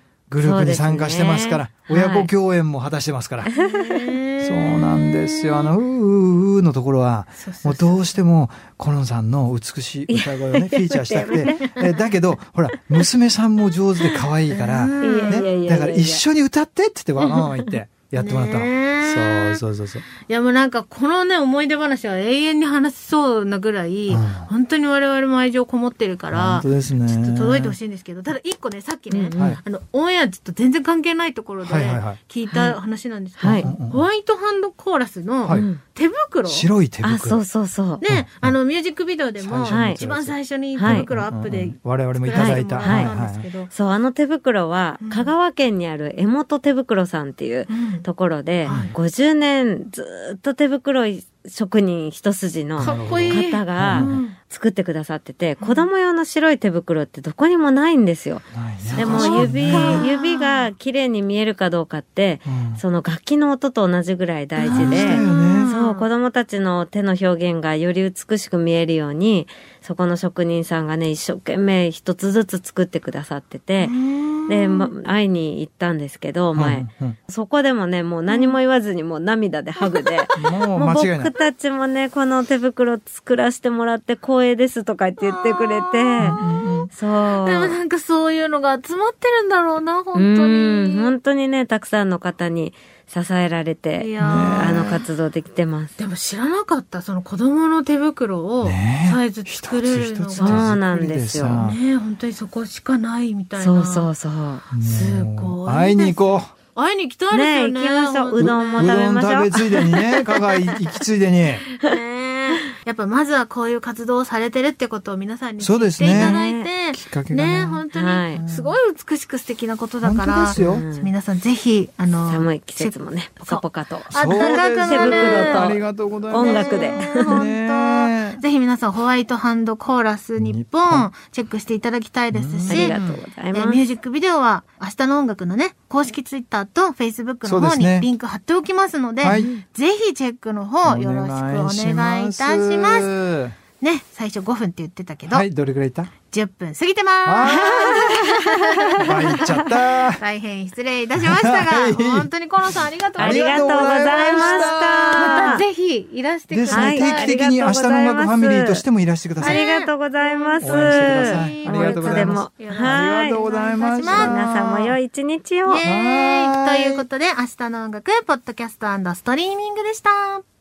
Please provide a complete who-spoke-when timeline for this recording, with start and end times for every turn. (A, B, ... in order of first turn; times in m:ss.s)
0:00.3-0:03.5 A
0:00.4-0:02.3 B
0:03.4-0:04.2 B
0:03.5-0:05.7 C
0:04.4-0:20.0 A
0:07.4-0:08.1 C
0:10.1-0:11.8 B
0:14.0-0:16.2 B
0:14.8-0:15.7 C
0:17.3-0:17.7 B
0:18.2-0:19.6 C
0:20.2-0:36.7 C
0:24.1-0:24.5 A
0:26.3-0:27.8 A
0:29.1-0:29.6 B
0:31.6-0:32.2 A
0:32.5-0:32.8 B
0:33.4-0:33.7 B
0:33.4-0:34.0 A
0:35.5-0:35.8 B
0:36.5-0:37.4 A
0:37.0-0:38.0 B
0:38.0-0:43.7 C
0:38.0-0:38.6 A
0:39.4-0:43.5 A
0:39.7-0:40.0 B
0:40.8-0:41.1 B
0:42.3-0:43.1 B
0:43.7-1:14.0 B
0:45.0-0:45.3 C
0:47.7-0:48.1 C
0:48.6-0:49.0 C
0:48.6-0:49.0 A
0:52.8-0:54.4 C
0:52.8-0:54.2 A
0:55.6-0:55.9 C
0:58.6-1:00.1 A
0:58.8-1:00.7 C
1:02.5-1:02.8 A
1:04.6-1:06.1 C
1:04.7-1:05.7 A
1:13.8-1:14.9 C
1:14.5-1:26.4 B
1:16.6-1:17.2 A
1:18.3-1:18.6 C
1:19.8-1:20.3 C
1:20.4-1:21.3 A
1:25.2-1:31.2 C
1:26.2-1:26.9 A
1:26.9-1:27.8 B
1:30.2-1:36.0 B
1:34.0-1:34.8 C
1:34.2-1:35.0 A
1:36.0-1:40.8 C
1:38.6-1:41.8 A
1:40.4-1:41.7 B
1:41.6-1:44.1 C
1:43.6-1:44.6 B
1:44.7-1:46.5 A
1:44.8-1:46.2 C
1:46.7-1:49.0 C
1:47.3-1:50.2 B
1:48.4-1:51.6 A
1:49.8-1:50.8 C
1:51.7-2:05.8 C
1:55.6-1:56.4 A
1:56.0-1:56.7 B
1:56.9-1:57.8 A
1:57.9-1:58.4 B
1:58.3-1:58.8 A
2:00.0-2:00.8 A
2:00.6-2:01.1 B
2:02.3-2:07.4 B
2:04.1-2:08.4 A
2:06.4-2:13.0 C
2:10.4-2:11.1 A
2:12.3-2:13.2 A
2:12.7-2:13.8 B
2:13.5-2:23.2 C
2:17.4-2:18.1 A
2:19.2-2:19.5 A
2:19.3-2:19.6 B
2:20.8-2:23.6 A
2:23.8-2:25.5 C
2:25.3-2:26.1 A
2:26.3-2:37.4 C
2:27.2-2:28.1 A
2:27.4-2:28.5 B
2:29.0-2:30.2 A
2:29.0-2:29.5 B
2:31.2-2:32.3 A
2:33.2-2:35.6 A
2:33.2-2:35.6 B
2:36.5-2:39.6 A
2:36.7-2:38.8 B
2:39.4-2:45.8 B
2:39.4-2:44.5 C
2:40.6-2:45.0 A
2:45.7-2:50.4 C
2:45.8-2:47.0 A